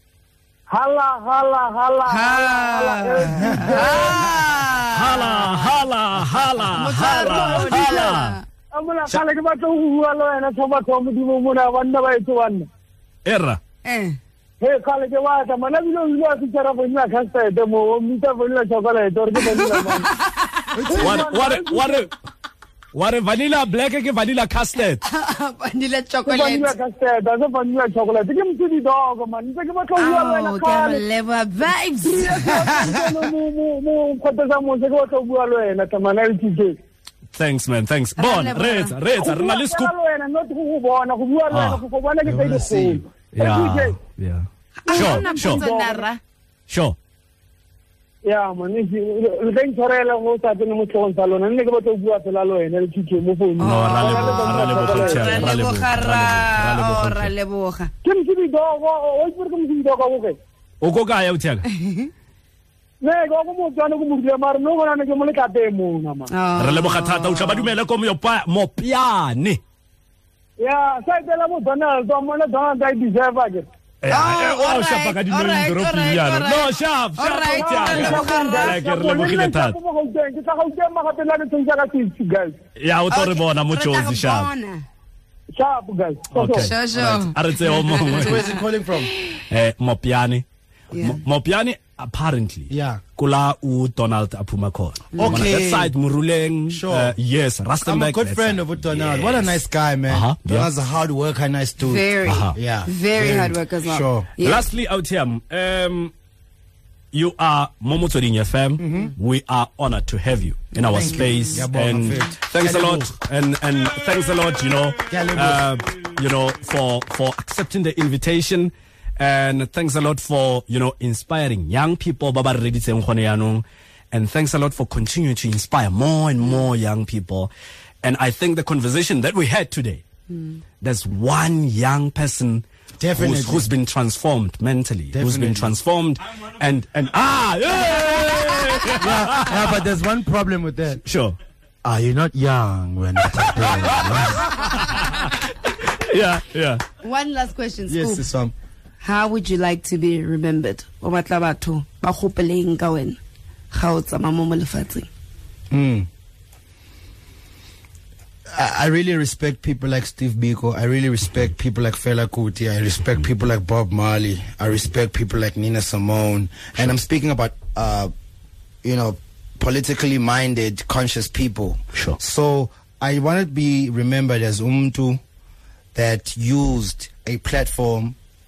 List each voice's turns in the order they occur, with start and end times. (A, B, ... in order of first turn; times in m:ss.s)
0:00.7-0:04.4 A
0:02.1-0:05.7 B
0:03.3-0:03.9 C
0:04.9-0:08.4 D
0:06.7-0:08.4 B
0:07.0-0:08.2 A
0:08.7-0:12.7 A
0:13.2-0:13.6 D
0:13.8-0:14.2 B
0:14.6-0:20.1 A
0:19.4-0:20.7 B
0:20.7-0:21.4 C
0:20.8-0:22.1 A
0:21.0-0:22.1 D
0:22.9-0:25.0 D
0:25.0-0:26.7 B
0:26.3-0:31.0 A
0:30.0-0:33.0 B
0:32.0-0:36.8 A
0:37.4-0:39.9 D
0:38.2-0:39.0 B
0:39.2-0:44.0 A
0:41.5-0:41.8 D
0:42.2-0:43.0 C
0:43.4-0:45.6 D
0:44.8-0:46.2 B
0:44.9-0:46.1 A
0:46.7-0:47.0 D
0:48.2-0:55.5 A
0:53.6-0:57.9 B
0:53.6-0:57.3 D
0:58.0-1:00.4 A
1:00.8-1:01.7 D
1:01.7-1:02.1 B
1:03.0-1:06.3 A
1:06.3-1:07.7 B
1:06.6-1:09.6 D
1:10.6-1:13.7 A
1:14.0-1:19.8 D
1:14.1-1:18.8 B
1:17.5-1:22.6 A
1:22.8-1:24.5 D
1:23.1-1:24.8 B
1:25.6-1:26.8 A
1:26.3-1:28.4 D
1:26.5-1:29.4 B
1:27.0-1:27.3 C
1:28.0-1:29.1 C
1:29.5-1:30.4 D
1:30.9-1:31.2 B
1:31.0-1:39.6 D
1:32.7-1:33.0 C
1:35.2-1:35.4 B
1:35.2-1:35.9 C
1:36.7-1:37.1 C
1:37.8-1:44.3 C
1:40.1-1:40.7 D
1:41.8-1:44.6 B
1:42.3-1:42.6 D
1:44.4-1:46.1 D
1:47.1-2:07.5 D
1:48.8-1:49.1 C
1:50.9-1:53.1 C
1:55.1-1:55.7 C
2:08.0-2:10.0 D
2:10.8-2:12.6 D
2:13.0-2:13.7 C
2:13.2-2:19.7 D
2:15.1-2:15.7 C
2:18.9-2:21.0 C
2:21.0-2:21.4 D
2:21.8-2:24.6 C
2:23.9-2:26.8 D
2:27.0-2:28.3 B
2:27.9-2:28.5 C
2:29.0-2:33.2 B
2:33.7-2:35.1 B
2:35.7-2:36.1 C
2:38.5-2:48.1 C
2:48.8-2:55.2 C
2:56.0-2:58.2 C